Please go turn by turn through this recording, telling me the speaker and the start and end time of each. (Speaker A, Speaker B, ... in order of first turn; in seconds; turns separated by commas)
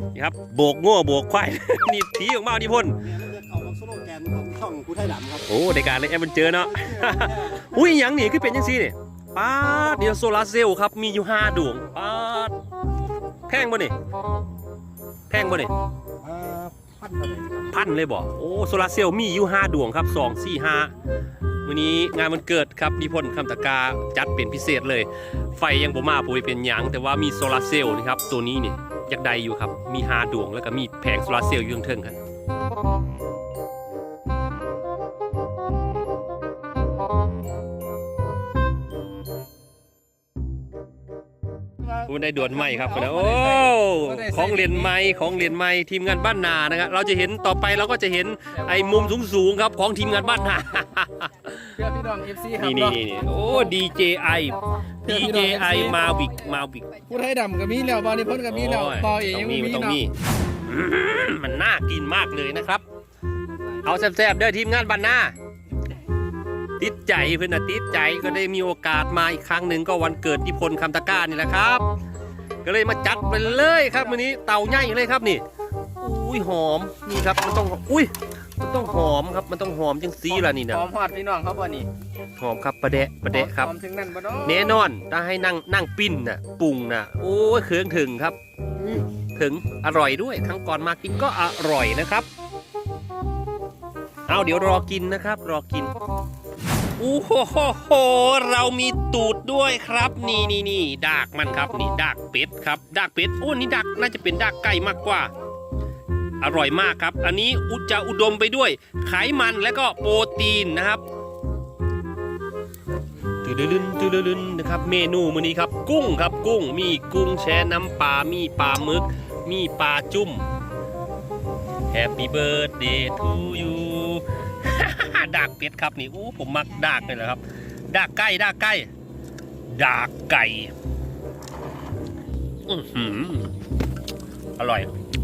Speaker A: 0.1-3.2, Speaker B: 3.1-5.5, Speaker A: 5.4-12.5, Speaker B: 6.7-7.7, Speaker A: 13.5-13.9, Speaker A: 15.3-15.7, Speaker B: 16.2-17.6, Speaker A: 17.7-20.9, Speaker A: 21.6-32.2, Speaker A: 42.0-51.8, Speaker C: 42.5-44.9, Speaker C: 51.8-53.0, Speaker A: 52.5-57.0, Speaker C: 55.0-56.0, Speaker C: 57.0-60.0, Speaker A: 58.5-60.1, Speaker A: 60.6-62.8, Speaker A: 63.8-65.3, Speaker A: 66.8-71.8, Speaker A: 72.6-75.4, Speaker C: 73.6-74.0, Speaker A: 76.0-80.8, Speaker C: 80.3-81.9, Speaker A: 82.4-83.7, Speaker C: 83.3-84.8, Speaker A: 84.4-88.4, Speaker A: 89.2-92.3, Speaker A: 94.3-95.9, Speaker A: 97.0-105.3, Speaker A: 106.4-111.0, Speaker A: 113.4-120.4, Speaker A: 121.9-128.9, Speaker A: 129.7-130.7, Speaker A: 132.7-133.5, Speaker A: 134.6-134.9